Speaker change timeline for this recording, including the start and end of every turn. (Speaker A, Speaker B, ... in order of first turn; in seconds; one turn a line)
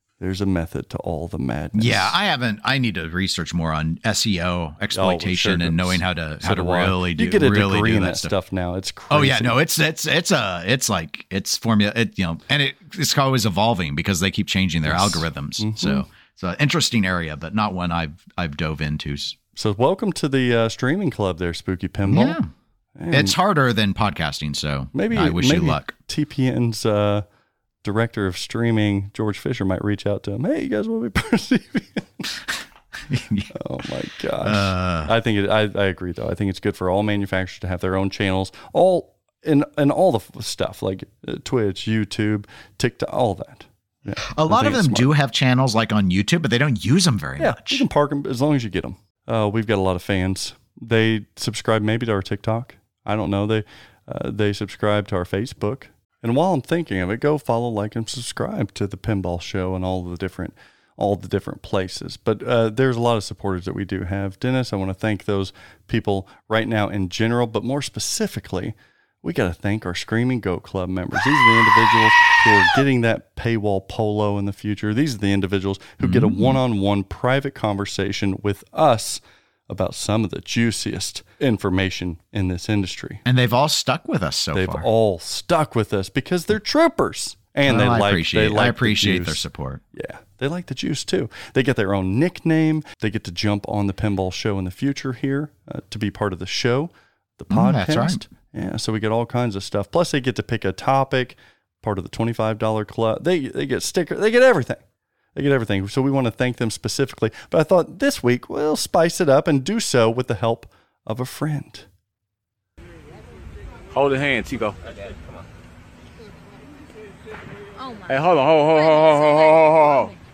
Speaker A: 0.2-2.2
Speaker B: 1.7-8.3
Speaker A: 4.9-9.5
Speaker B: 9.1-19.4
Speaker A: 14.8-16.0
Speaker A: 19.5-22.4
Speaker B: 22.1-22.5
Speaker A: 23.0-23.4
Speaker B: 23.1-25.9
Speaker A: 24.9-27.2
Speaker A: 27.8-32.3
Speaker B: 33.1-33.5
Speaker A: 33.5-45.1
Speaker B: 34.4-35.1
Speaker B: 44.2-47.9
Speaker A: 47.4-83.2
Speaker B: 76.0-76.6
Speaker B: 83.2-84.9
Speaker A: 84.5-89.4
Speaker B: 87.6-89.8
Speaker A: 89.9-104.8
Speaker B: 97.5-98.2
Speaker A: 105.3-111.8
Speaker C: 113.9-114.8
Speaker C: 118.1-120.1